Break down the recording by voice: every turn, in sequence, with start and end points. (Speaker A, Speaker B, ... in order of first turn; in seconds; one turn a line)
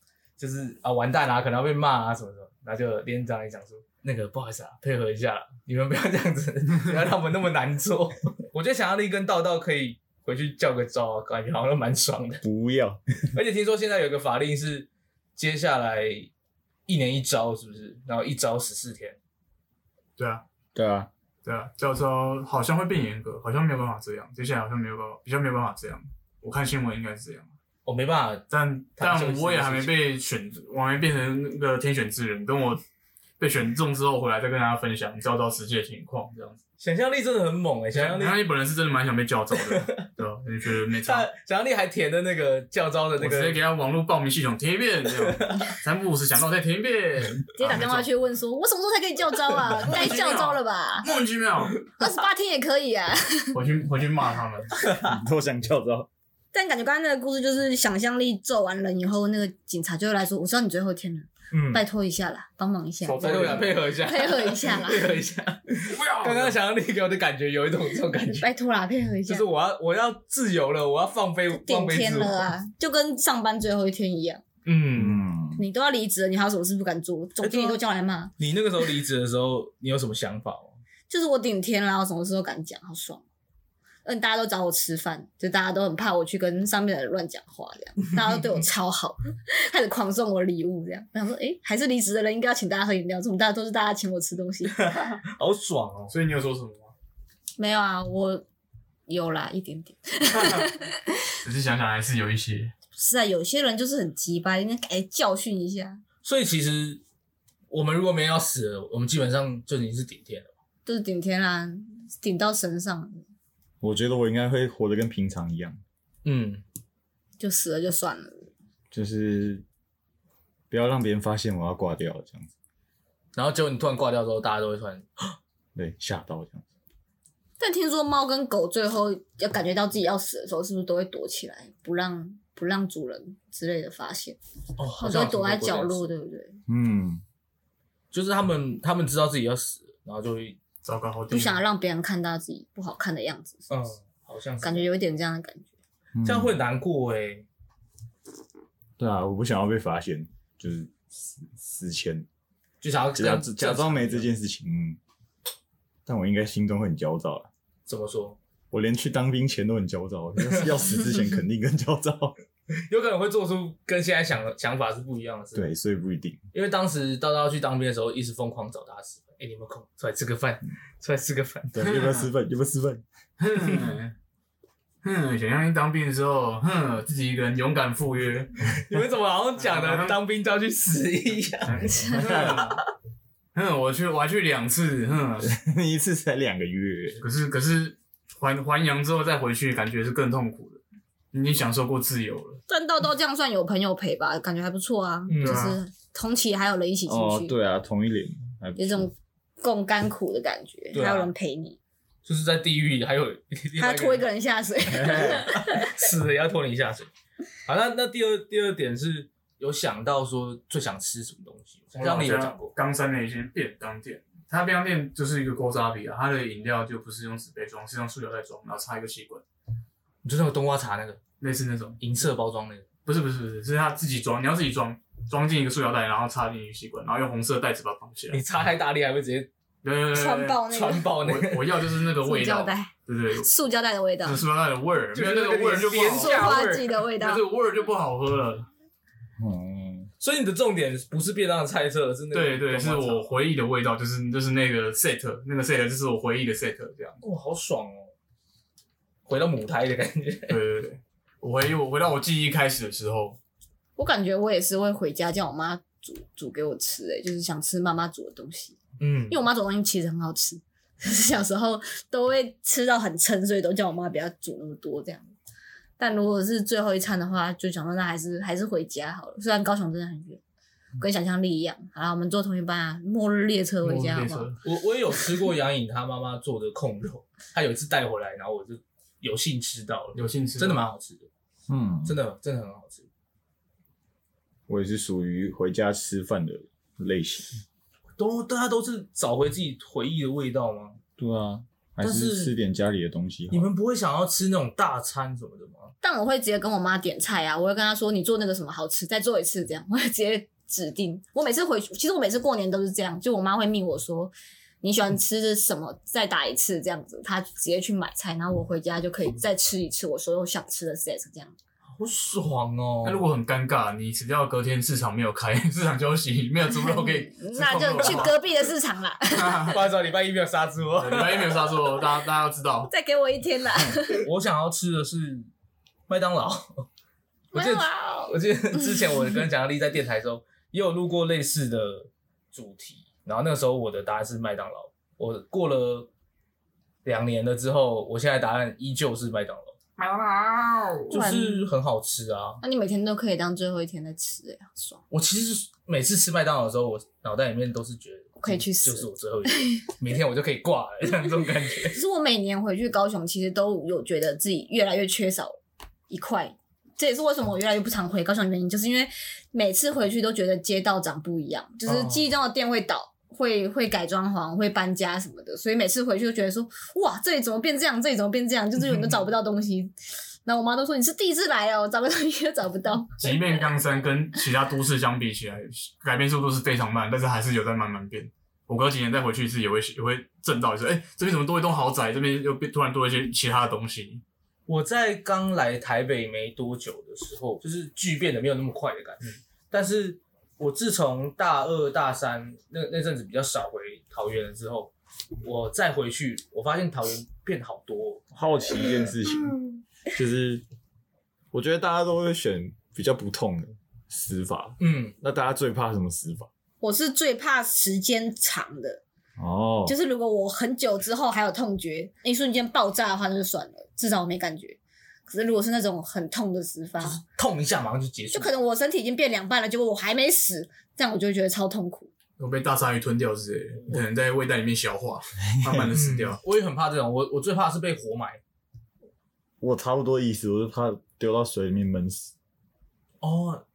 Speaker A: 0.4-12.4
Speaker B: 12.4-13.0
Speaker A: 13.3-16.3
Speaker A: 16.9-19.2
Speaker C: 20.2-20.4
Speaker B: 20.7-21.1
Speaker C: 21.4-27.5
Speaker A: 27.9-28.4
Speaker C: 28.5-32.8
Speaker A: 29.0-29.9
Speaker C: 33.4-36.6
Speaker A: 36.8-38.4
Speaker C: 37.9-41.3
Speaker A: 41.0-43.6
Speaker C: 43.2-48.1
Speaker A: 45.2-45.6
Speaker D: 47.5-51.0
Speaker C: 49.7-51.8
Speaker D: 52.0-53.6
Speaker C: 53.5-54.7
Speaker B: 54.9-56.1
Speaker D: 56.5-65.2
Speaker A: 61.5-61.8
Speaker C: 63.0-63.9
Speaker A: 63.2-68.5
Speaker C: 65.8-66.6
Speaker D: 68.2-69.5
Speaker A: 69.3-72.5
Speaker D: 71.5-74.4
Speaker A: 74.6-75.2
Speaker B: 74.9-75.6
Speaker D: 75.5-78.3
Speaker A: 77.4-77.8
Speaker A: 78.4-80.8
Speaker D: 81.1-83.2
Speaker D: 84.0-94.8
Speaker A: 94.7-96.1
Speaker C: 96.1-96.9
Speaker D: 97.6-98.4
Speaker D: 99.1-101.1
Speaker C: 100.3-100.7
Speaker C: 101.4-102.7
Speaker D: 102.9-106.0
Speaker A: 106.2-107.0
Speaker A: 107.7-110.5
Speaker D: 110.8-113.2
Speaker B: 113.8-115.8
Speaker A: 116.2-116.6
Speaker D: 117.4-118.5
Speaker B: 118.9-119.6
Speaker B: 120.7-122.5
Speaker A: 123.3-125.3
Speaker B: 125.7-126.6
Speaker D: 127.6-134.4
Speaker A: 134.8-136.0
Speaker D: 134.9-136.6
Speaker B: 136.7-137.2
Speaker A: 138.1-140.6
Speaker C: 140.8-141.6
Speaker D: 141.3-143.7
Speaker A: 143.7-144.8
Speaker D: 144.6-145.7
Speaker B: 146.1-146.6
Speaker A: 146.2-147.5
Speaker B: 149.0-152.2
Speaker A: 152.8-154.3
Speaker B: 153.1-155.0
Speaker B: 156.1-157.5
Speaker A: 157.8-158.4
Speaker B: 158.7-162.3
Speaker A: 162.9-165.7
Speaker B: 165.5-166.4
Speaker A: 166.5-171.8
Speaker B: 171.7-173.0
Speaker C: 171.8-172.3
Speaker C: 173.4-174.1
Speaker A: 173.6-173.9
Speaker C: 175.0-178.6
Speaker A: 178.7-181.9
Speaker C: 179.6-180.2
Speaker C: 181.6-182.8
Speaker D: 181.8-182.3
Speaker B: 182.1-182.7
Speaker C: 183.5-185.5
Speaker B: 185.4-187.2
Speaker C: 187.2-190.8
Speaker C: 191.3-192.6
Speaker D: 192.7-197.5
Speaker A: 195.3-195.6
Speaker C: 195.4-195.8
Speaker B: 197.1-199.1
Speaker D: 198.8-201.8
Speaker A: 200.9-201.3
Speaker A: 202.2-204.2
Speaker D: 203.8-205.9
Speaker B: 204.9-205.7
Speaker A: 205.6-207.1
Speaker A: 207.7-212.7
Speaker C: 211.9-219.4
Speaker A: 220.2-221.2
Speaker C: 221.4-222.0
Speaker A: 222.0-222.9
Speaker C: 223.0-228.4
Speaker A: 228.3-229.5
Speaker C: 229.8-230.6
Speaker D: 230.1-231.1
Speaker A: 230.7-231.8
Speaker C: 231.2-233.5
Speaker D: 232.2-234.4
Speaker C: 234.2-238.7
Speaker A: 235.1-237.0
Speaker D: 235.8-237.4
Speaker B: 239.4-240.1
Speaker A: 240.2-243.3
Speaker C: 242.3-247.2
Speaker A: 247.2-248.1
Speaker A: 249.2-250.6
Speaker C: 250.5-253.4
Speaker D: 254.0-258.8
Speaker A: 259.0-259.4
Speaker D: 259.3-265.3
Speaker D: 266.0-270.4
Speaker D: 271.0-274.5
Speaker C: 273.8-274.6
Speaker A: 274.6-281.3
Speaker C: 280.1-280.8
Speaker B: 281.7-282.2
Speaker A: 282.0-283.1
Speaker B: 284.7-287.5
Speaker A: 288.2-291.0
Speaker B: 291.2-293.7
Speaker A: 292.0-292.5
Speaker A: 293.5-295.9
Speaker D: 296.0-311.5
Speaker A: 311.9-313.2
Speaker C: 313.0-318.4
Speaker D: 316.7-319.7
Speaker A: 317.6-318.3
Speaker C: 319.3-319.8
Speaker A: 319.6-321.7
Speaker C: 321.0-322.9
Speaker D: 322.9-324.3
Speaker A: 324.1-325.5
Speaker A: 326.1-326.9
Speaker D: 327.5-328.4
Speaker A: 327.5-336.1
Speaker A: 337.0-339.8
Speaker C: 340.0-341.1
Speaker A: 341.1-342.6
Speaker D: 341.1-341.7
Speaker D: 342.6-345.0
Speaker A: 345.1-352.0
Speaker D: 348.4-349.7
Speaker D: 351.9-355.6
Speaker D: 356.1-369.9
Speaker A: 361.9-362.2
Speaker D: 370.4-373.6
Speaker C: 373.2-384.2
Speaker A: 384.7-398.2
Speaker B: 398.3-399.5
Speaker B: 400.1-400.6
Speaker B: 401.5-406.5
Speaker A: 404.8-405.1
Speaker D: 406.8-409.0
Speaker B: 409.4-409.9
Speaker D: 409.8-417.2
Speaker A: 417.0-418.5
Speaker D: 418.3-422.1
Speaker C: 422.4-426.4
Speaker B: 425.5-425.9
Speaker A: 425.9-428.4
Speaker B: 429.6-432.3
Speaker A: 433.2-433.6